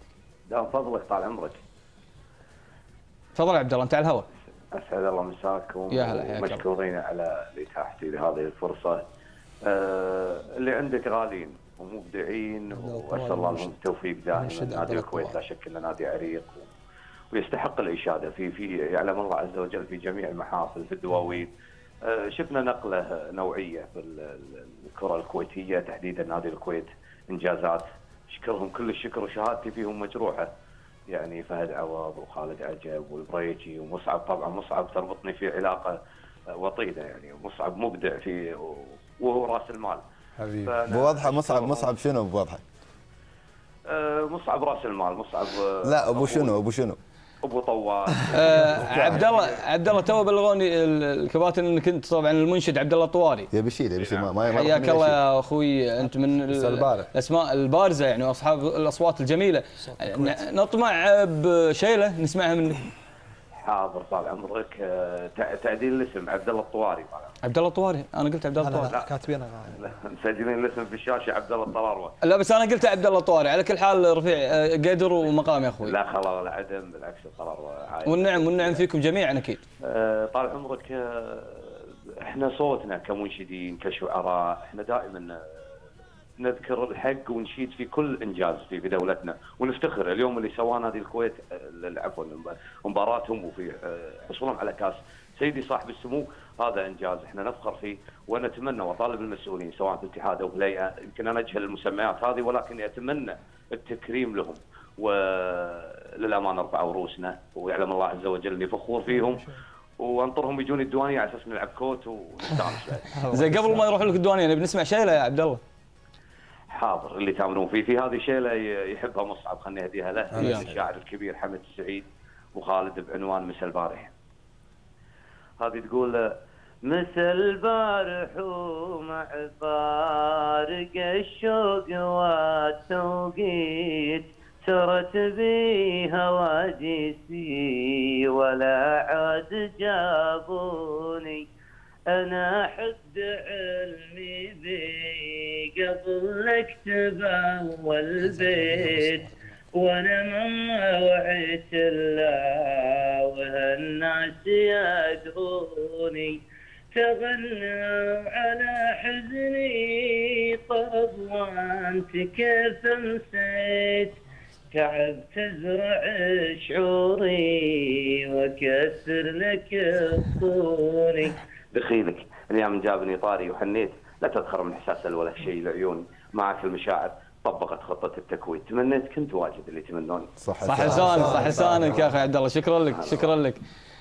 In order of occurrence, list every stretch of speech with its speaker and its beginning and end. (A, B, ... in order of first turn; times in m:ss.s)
0:00.5-0:01.6 A
0:03.4-0:04.3 B
0:04.7-0:09.0 A
0:05.9-0:06.6 B
0:09.6-0:16.7 A
0:12.7-0:13.7 C
0:14.3-0:15.4 C
0:17.3-0:21.5 A
0:22.0-0:30.5 A
0:31.1-0:36.0 A
0:36.5-0:40.0 A
0:40.4-0:40.7 C
0:40.5-0:42.0 A
0:40.8-0:42.6 D
0:43.9-0:46.6 A
0:45.8-0:47.0 D
0:47.4-0:49.6 A
0:48.3-0:53.5 B
0:53.5-0:55.2 D
0:54.0-0:54.4 A
0:54.5-1:02.9 B
0:56.5-0:57.1 D
0:59.9-1:00.4 C
1:03.6-1:07.4 A
1:07.4-1:08.9 B
1:08.6-1:09.9 C
1:08.8-1:09.2 A
1:09.7-1:12.2 A
1:12.2-1:16.0 B
1:15.8-1:18.8 A
1:18.0-1:19.6 B
1:19.8-1:25.4 A
1:26.4-1:53.2 A
1:49.2-1:49.6 C
1:53.1-1:54.1 C
1:53.3-1:55.6 B
1:56.7-2:04.1 A
2:00.4-2:00.7 C
2:00.4-2:00.7 B
2:05.6-2:21.4 A
2:22.1-2:29.2 A
2:28.2-2:29.3 C
2:29.8-2:30.4 A
2:31.1-2:32.9 A
2:33.6-2:36.2 A
2:37.0-2:44.2 A
2:44.7-3:00.4 A
3:00.4-3:01.6 D
3:00.6-3:03.6 B
3:00.8-3:02.1 C
3:02.9-3:03.4 A